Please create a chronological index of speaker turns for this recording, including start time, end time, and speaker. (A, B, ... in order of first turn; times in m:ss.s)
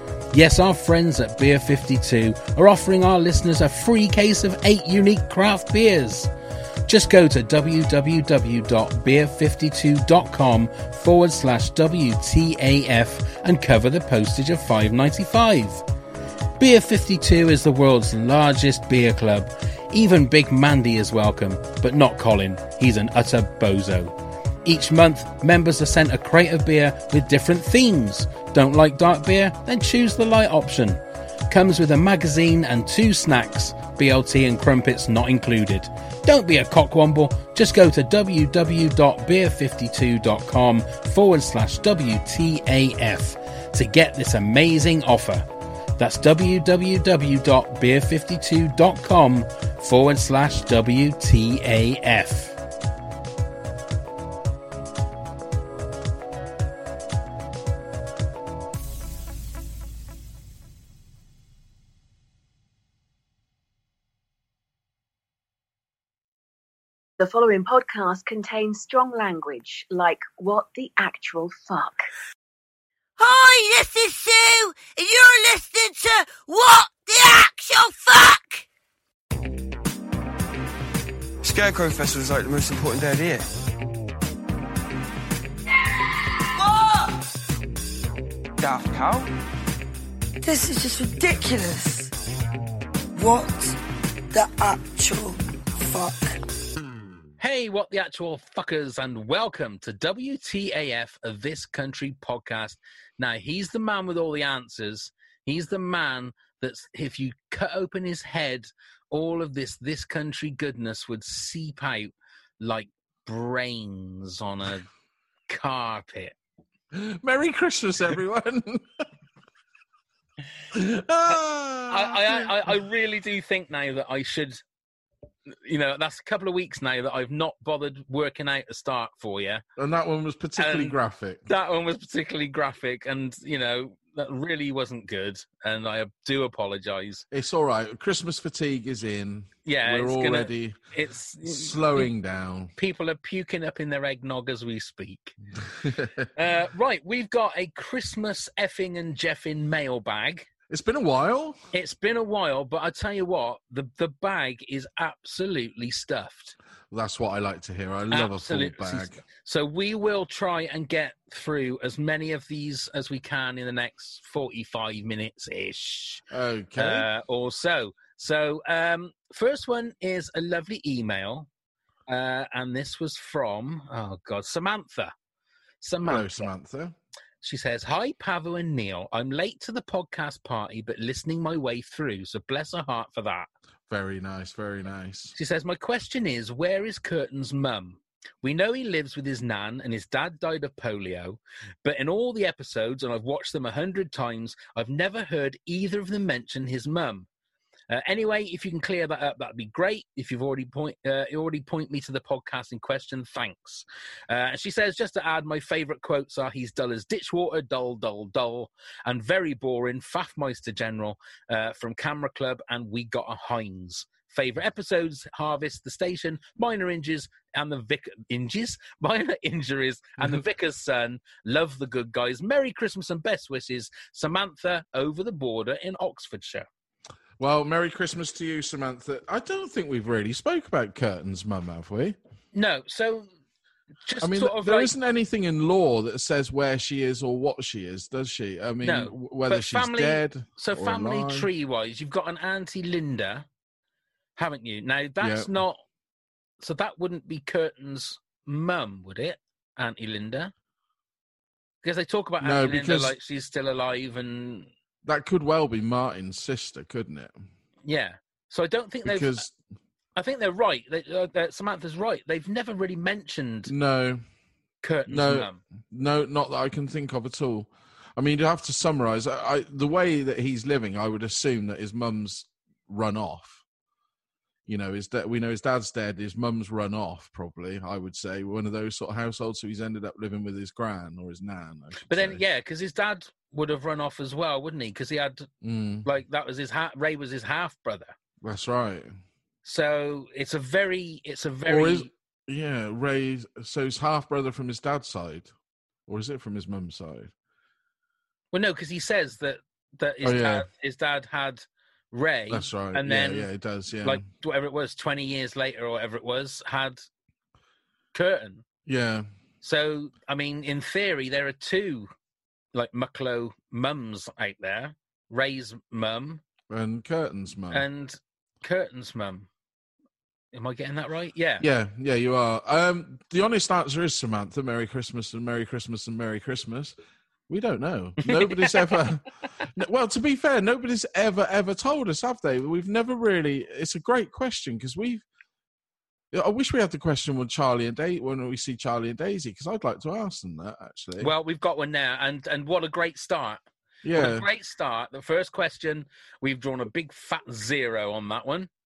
0:00.3-0:06.3 A
0:06.9-0:15.8 A
0:16.6-0:45.5 A
0:46.0-0:52.6 A
1:07.2-1:12.0 B
1:13.2-1:18.6 C
1:21.4-1:23.5 D
1:28.6-1:29.3 D
1:30.4-1:32.1 E
1:33.2-1:33.8 E
1:34.3-1:36.4 E
1:37.4-1:54.9 A
1:55.5-1:56.4 A
1:56.9-1:59.0 F
2:00.7-2:02.7 F
2:01.3-2:04.6 A
2:05.5-2:09.6 A
2:09.8-2:11.5 F
2:10.6-2:11.0 A
2:11.5-2:17.2 A
2:17.3-2:20.8 F
2:19.7-2:22.1 A
2:21.4-2:22.7 F
2:22.8-2:25.4 A
2:25.7-2:26.3 F
2:26.4-2:30.5 A
2:30.7-2:31.6 F
2:31.7-2:36.6 A
2:36.9-2:39.2 F
2:38.1-2:46.2 A
2:46.3-2:47.1 F
2:46.8-2:51.5 A
2:52.1-2:55.1 A
2:55.8-2:56.5 A
2:56.0-2:57.0 F
2:57.4-3:03.5 A
3:03.9-3:05.4 F
3:05.4-3:17.3 A
3:17.9-3:46.7 A
3:47.4-3:52.2 F
3:52.5-3:53.3 A
3:54.1-3:54.9 A
3:54.2-4:01.5 F
3:58.8-4:03.5 A
4:04.4-4:05.8 A
4:05.2-4:05.5 F
4:06.6-4:10.5 A
4:11.8-4:14.7 A
4:12.4-4:13.2 F
4:15.0-4:17.4 F
4:17.9-4:19.4 A
4:19.0-4:19.6 F
4:20.2-4:23.7 A
4:23.7-4:24.2 F
4:24.8-4:25.6 A
4:25.1-4:33.6 F
4:34.7-4:42.4 F
4:42.0-4:45.5 A
4:45.6-4:46.1 F
4:46.0-4:48.2 A
4:48.4-4:49.1 F
4:49.6-4:52.1 A
4:51.7-4:55.5 F
4:56.1-4:57.3 F
4:58.5-5:03.5 A
5:00.2-5:00.7 F
5:02.5-5:04.2 F
5:04.0-5:07.1 A
5:08.1-5:08.6 A
5:08.9-5:09.3 F
5:09.6-5:12.1 A
5:12.7-5:16.4 A
5:16.7-5:17.8 F
5:17.7-5:19.5 A
5:20.5-5:21.6 A
5:21.6-5:27.0 F
5:27.5-5:35.2 F
5:28.2-5:29.0 A
5:36.3-5:41.3 F
5:41.2-5:43.6 A
5:44.0-5:44.5 F
5:44.1-5:48.7 A